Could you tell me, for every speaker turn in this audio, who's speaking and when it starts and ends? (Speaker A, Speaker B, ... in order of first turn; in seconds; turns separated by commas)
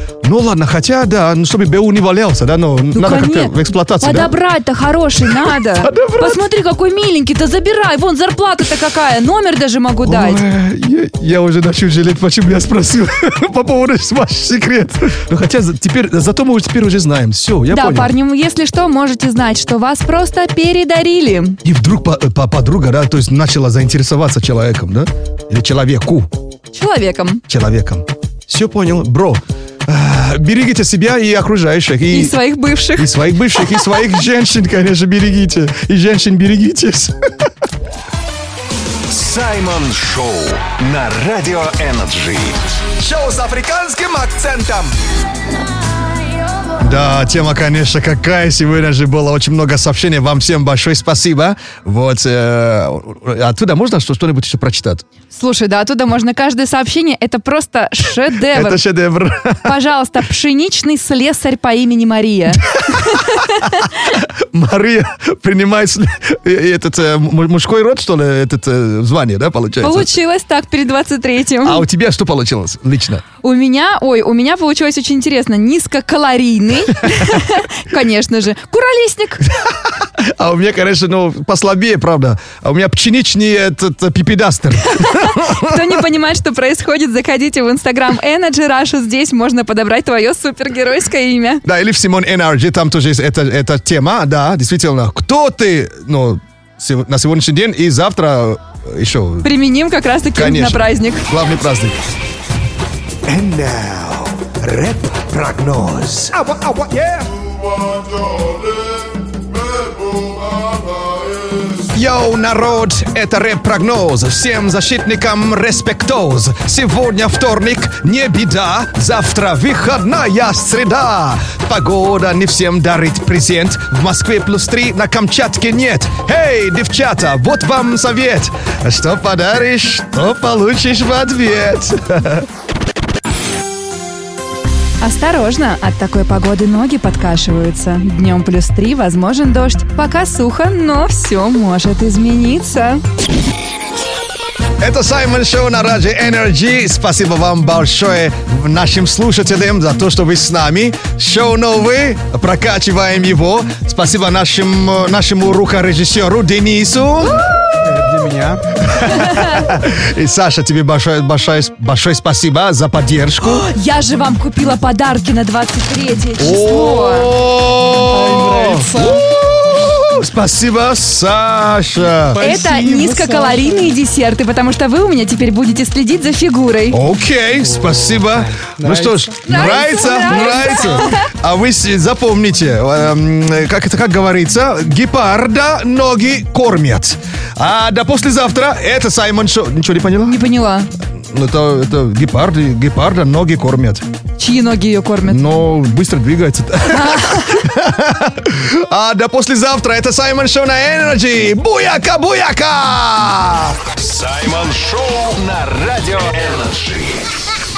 Speaker A: 0.2-4.3, Speaker B: 2.9-10.4, Speaker A: 5.8-6.4, Speaker A: 10.0-18.1, Speaker B: 17.7-21.6, Speaker A: 21.6-26.3, Speaker B: 26.7-27.4, Speaker A: 27.5-32.4, Speaker B: 32.1-34.0, Speaker A: 33.0-37.2, Speaker C: 39.1-42.6, Speaker A: 43.0-45.0, Speaker A: 46.8-55.0, Speaker B: 55.3-58.8, Speaker A: 58.5-59.7, Speaker B: 59.6-63.8, Speaker A: 62.9-70.1, Speaker B: 69.8-71.8, Speaker A: 71.7-73.2, Speaker B: 73.4-79.5, Speaker A: 80.0-85.9, Speaker B: 84.9-91.6, Speaker A: 91.7-99.5, Speaker B: 99.4-101.3, Speaker A: 100.3-102.0, Speaker A: 103.3-106.5, Speaker D: 106.5-107.2, Speaker A: 107.3-108.9, Speaker A: 109.7-132.5, Speaker B: 135.0-143.0, Speaker A: 144.8-157.5, Speaker D: 157.8-158.6, Speaker A: 158.9-163.7, Speaker B: 159.2-159.7, Speaker B: 163.6-167.3, Speaker A: 166.4-172.4, Speaker D: 168.1-169.2, Speaker D: 172.3-173.9, Speaker B: 172.4-177.0, Speaker A: 176.9-190.4, Speaker D: 177.8-179.6, Speaker B: 179.4-181.2, Speaker B: 190.3-190.9, Speaker A: 191.3-194.0, Speaker B: 194.4-195.5, Speaker A: 195.3-203.8, Speaker B: 196.9-197.6, Speaker C: 204.0-207.3